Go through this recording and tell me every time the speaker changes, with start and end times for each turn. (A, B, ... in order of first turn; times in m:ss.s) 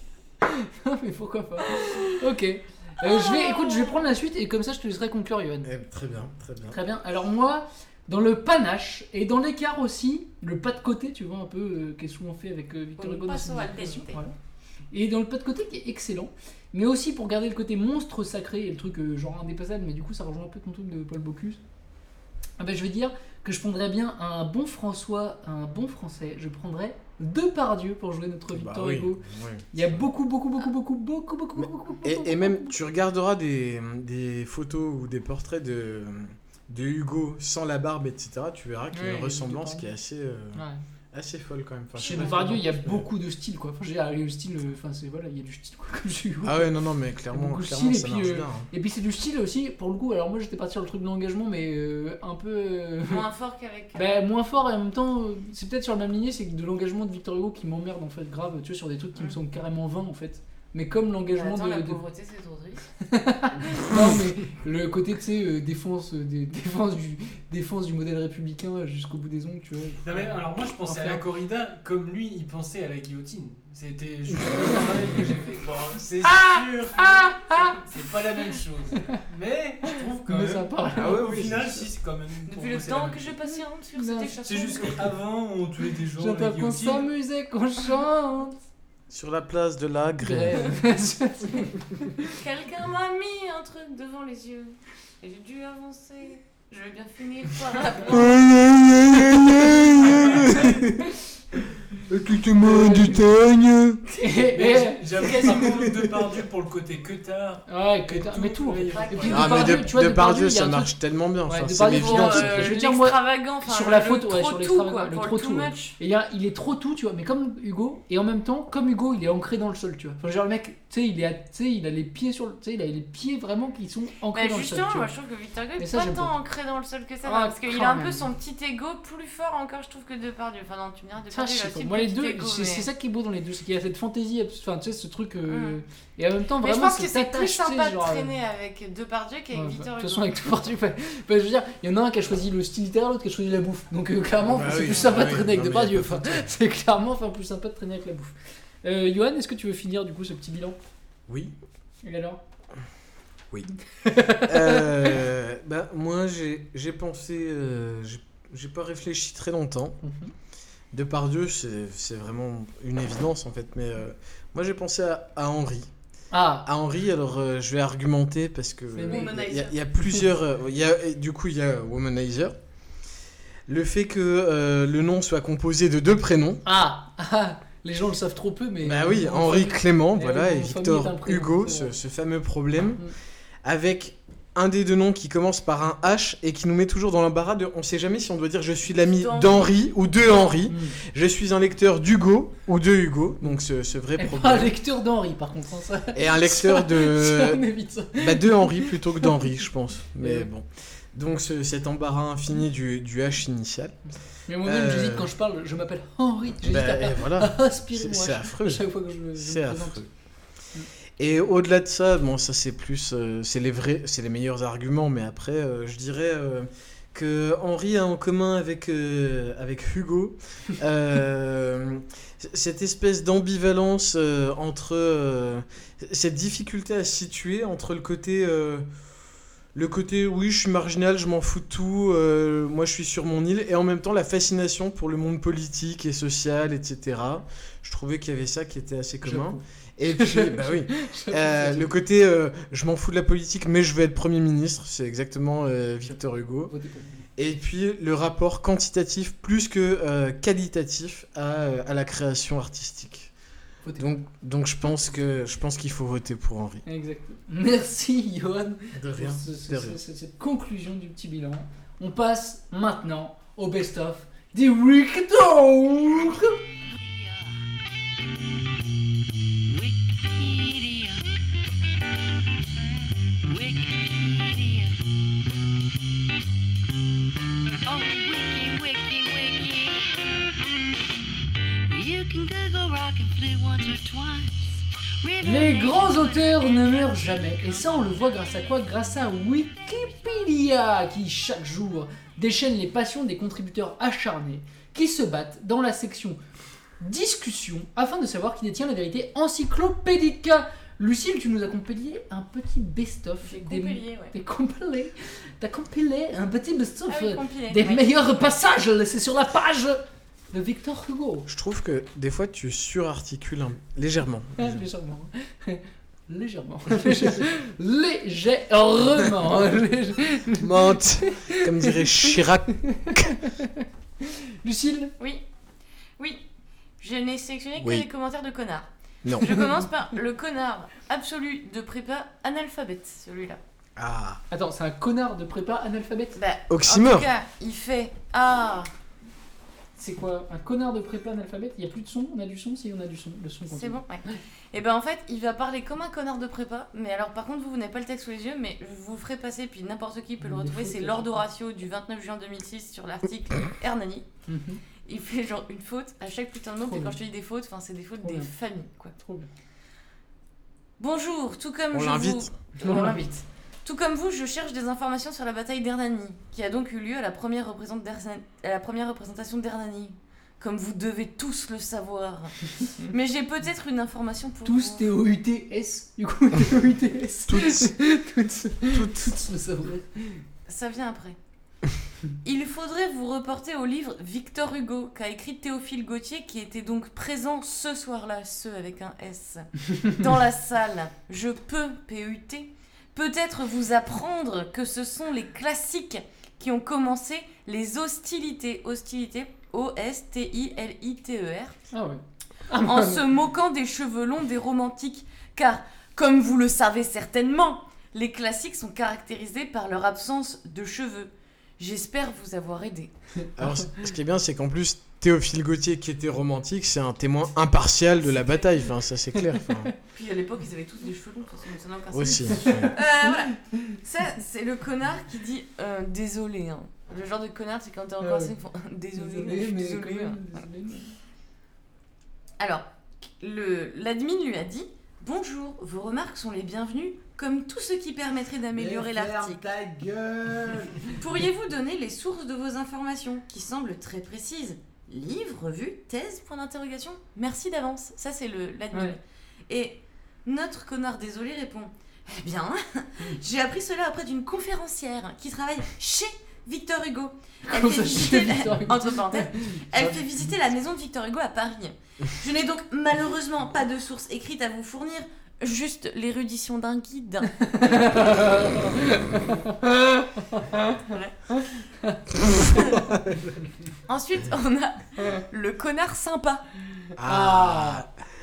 0:00.4-0:05.7 A
0:01.7-0:02.2 B
0:03.0-0:04.0 B
0:05.6-0:06.8 C
0:06.7-0:14.3 A
0:13.0-0:14.2 B
0:14.9-0:21.6 A
0:22.6-0:29.2 A
0:28.5-0:30.0 C
0:29.7-0:32.7 A
0:31.6-0:43.1 C
0:38.9-0:39.9 A
0:42.0-0:46.7 A
0:42.0-0:42.3 B
0:46.4-0:48.7 C
0:47.3-0:53.2 A
0:53.0-0:54.1 B
0:53.9-1:02.0 A
1:01.3-1:02.8 B
1:03.1-1:11.2 A
1:10.0-1:23.4 D
1:16.2-1:17.8 A
1:20.3-1:21.4 A
1:20.9-1:21.7 C
1:22.5-1:25.1 B
1:24.0-1:24.4 A
1:24.4-1:27.1 D
1:26.2-1:28.6 A
1:29.1-1:30.8 C
1:30.2-1:32.3 A
1:32.3-1:38.5 B
1:38.1-1:41.1 C
1:41.9-1:44.1 C
1:42.6-1:43.2 A
1:44.1-1:45.8 A
1:44.5-1:49.7 D
1:47.7-1:50.9 A
1:48.9-1:49.8 B
1:49.3-1:52.8 C
1:51.4-2:05.1 A
1:51.9-1:56.0 B
2:04.3-2:12.9 B
2:05.8-2:06.3 A
2:07.2-2:08.3 A
2:11.3-2:18.3 A
2:15.4-2:15.8 B
2:16.6-2:20.3 B
2:19.5-2:30.8 A
2:24.4-2:26.5 C
2:31.3-2:31.5 C
2:32.0-2:32.4 A
2:34.0-2:35.2 A
2:34.4-2:40.0 C
2:40.0-2:40.3 A
2:40.9-2:45.9 C
2:46.3-2:46.7 A
2:46.6-2:52.6 C
2:49.0-2:49.3 A
2:49.0-2:49.8 B
2:53.7-2:56.6 C
2:56.6-3:01.9 A
2:58.8-3:03.1 C
3:03.6-3:14.7 C
3:09.1-3:09.7 B
3:10.7-3:11.0 A
3:14.2-3:19.3 A
3:16.1-3:24.0 C
3:20.2-3:20.5 A
3:24.5-3:30.0 A
3:24.6-3:25.3 C
3:26.6-3:30.1 C
3:31.2-3:48.8 C
3:49.7-4:06.7 C
3:59.2-4:01.9 A
4:06.7-4:07.2 A
4:07.4-4:13.3 C
4:13.8-4:14.1 A
4:14.0-4:16.8 C
4:16.8-4:26.6 A
4:18.9-4:20.0 C
4:26.9-4:27.6 E
4:29.6-4:31.2 E
4:33.4-4:35.0 E
4:37.8-4:40.1 E
4:41.9-4:44.5 E
4:45.2-4:47.8 E
4:45.4-4:56.4 A
4:57.0-5:11.5 A
5:03.4-5:04.3 B
5:07.1-5:08.5 B
5:11.5-5:14.8 C
5:14.6-5:22.4 A
5:20.6-5:23.3 C
5:22.9-5:25.1 A
5:26.2-5:26.4 B
5:27.0-5:33.6 B
5:27.8-5:28.0 C
5:29.2-5:29.6 C
5:34.0-5:34.4 C
5:34.5-5:36.4 A
5:36.3-5:38.9 B
5:36.7-5:37.3 C
5:40.0-5:44.4 A
5:43.7-5:54.2 B
5:50.4-5:51.4 A
5:54.5-5:54.8 A
5:55.0-5:59.1 B
5:56.8-5:57.2 A
5:58.2-5:58.5 A
5:59.2-5:59.5 A
6:01.0-6:15.0 B
6:01.9-6:02.5 C
6:02.8-6:03.3 A
6:14.6-6:20.4 A
6:17.5-6:18.0 C
6:18.9-6:19.3 C
6:20.7-6:21.4 B
6:22.4-6:41.8 B
6:41.9-6:43.2 A
6:42.8-6:53.1 B
6:53.6-6:59.9 C
6:58.1-6:58.7 B
7:00.1-7:10.4 B
7:02.1-7:02.9 C
7:02.6-7:03.5 A
7:08.2-7:08.5 A
7:09.1-7:11.1 A
7:12.6-7:12.9 B
7:13.4-7:19.6 B
7:18.7-7:20.9 C
7:21.1-7:47.5 B
7:28.9-7:29.2 A
7:37.7-7:39.8 A
7:47.6-7:51.0 A
7:51.1-7:51.3 B
7:52.0-7:52.7 A
7:54.1-7:56.6 B
7:57.2-7:58.1 C
7:57.2-7:58.0 A